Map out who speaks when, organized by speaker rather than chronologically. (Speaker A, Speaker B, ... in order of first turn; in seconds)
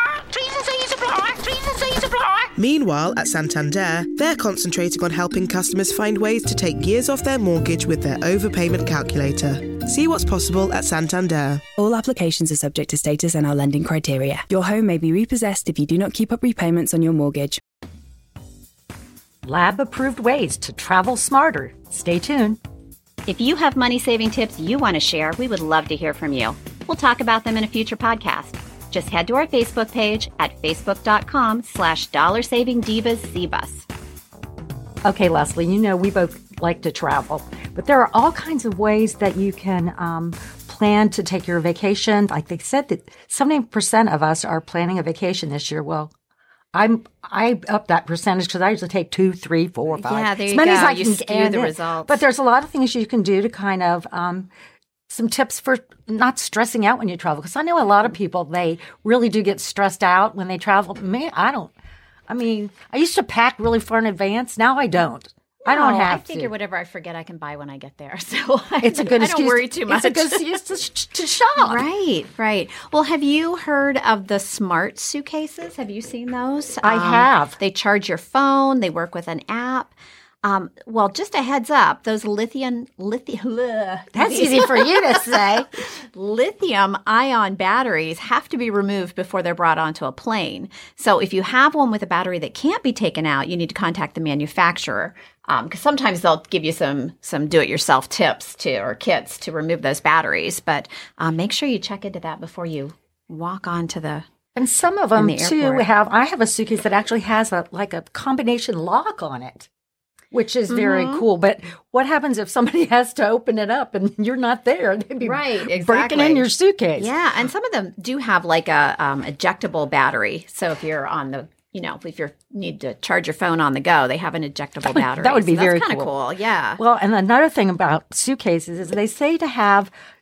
Speaker A: 0.3-2.4
Speaker B: 2.5-11.6
Speaker C: 11.8-17.6
Speaker D: 19.4-22.6, 35.0-46.1, 46.7-54.5, 55.1-61.7, 62.3-66.5, 68.8-71.8, 76.8-77.6, 84.1-85.7, 104.5-109.7, 110.3-117.1, 124.9-126.1, 126.8-129.9
Speaker E: 23.2-33.9, 49.9-52.2, 65.6-70.5, 71.5-104.2, 105.1-105.9, 110.7-111.2, 115.2-126.8